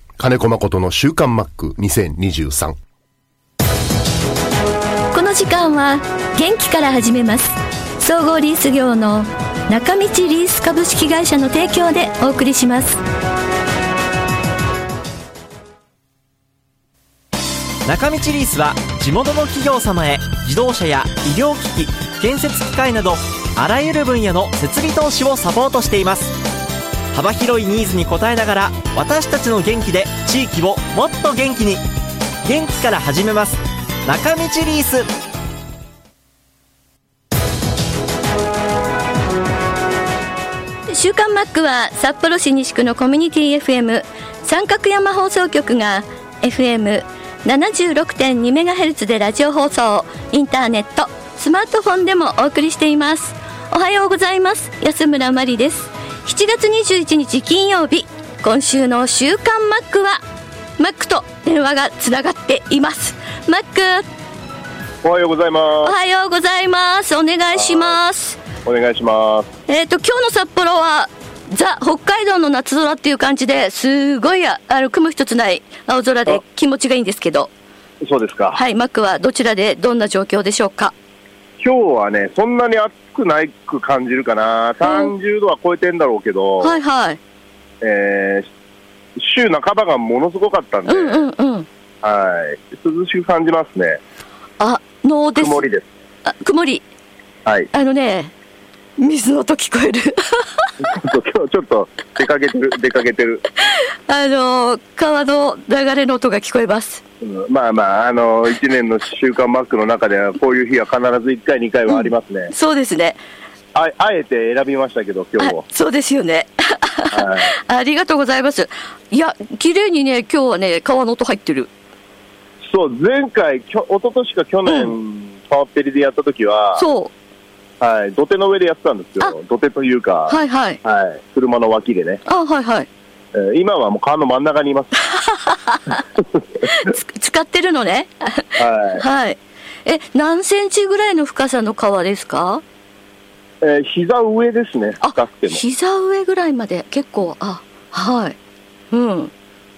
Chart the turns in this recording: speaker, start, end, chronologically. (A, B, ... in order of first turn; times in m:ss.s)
0:00.2-0:02.8 A
0:05.1-0:13.0 B
0:17.8-0:26.4 C
0:27.1-0:31.8 C
0:32.4-0:35.1 C
0:40.8-1:00.2 B
1:00.8-1:04.1 B
1:05.0-1:05.9 D
1:05.8-1:08.4 B
1:07.5-1:08.0 D
1:08.6-1:09.5 D
1:09.7-1:17.5 B
1:18.0-1:18.6 D
1:18.5-1:20.9 B
1:21.6-1:26.8 D
1:24.8-1:25.1 B
1:26.6-1:27.2 B
1:27.8-1:28.5 D
1:29.2-1:31.3 D
1:30.8-1:31.7 B
1:32.0-1:34.0 D
1:34.6-1:35.6 B
1:35.4-1:35.9 D
1:36.2-1:36.8 B
1:37.4-1:37.7 D
1:37.7-1:38.3 B
1:39.0-1:40.7 B
1:40.8-1:43.4 D
1:43.6-1:47.0 B
1:47.2-1:52.5 D
1:51.9-1:53.2 B
1:53.7-1:55.6 D
1:55.4-2:01.7 B
1:57.1-1:57.5 D
2:02.6-2:06.9 D
2:04.6-2:05.0 B
2:06.7-2:07.1 B
2:07.8-2:12.2 D
2:10.3-2:10.8 B
2:12.2-2:12.9 B
2:13.3-2:14.9 D
2:15.0-2:16.0 B
2:16.6-2:22.6 B
2:18.6-2:19.0 D
2:23.6-2:25.6 D
2:25.0-2:28.4 B
2:28.9-2:29.3 B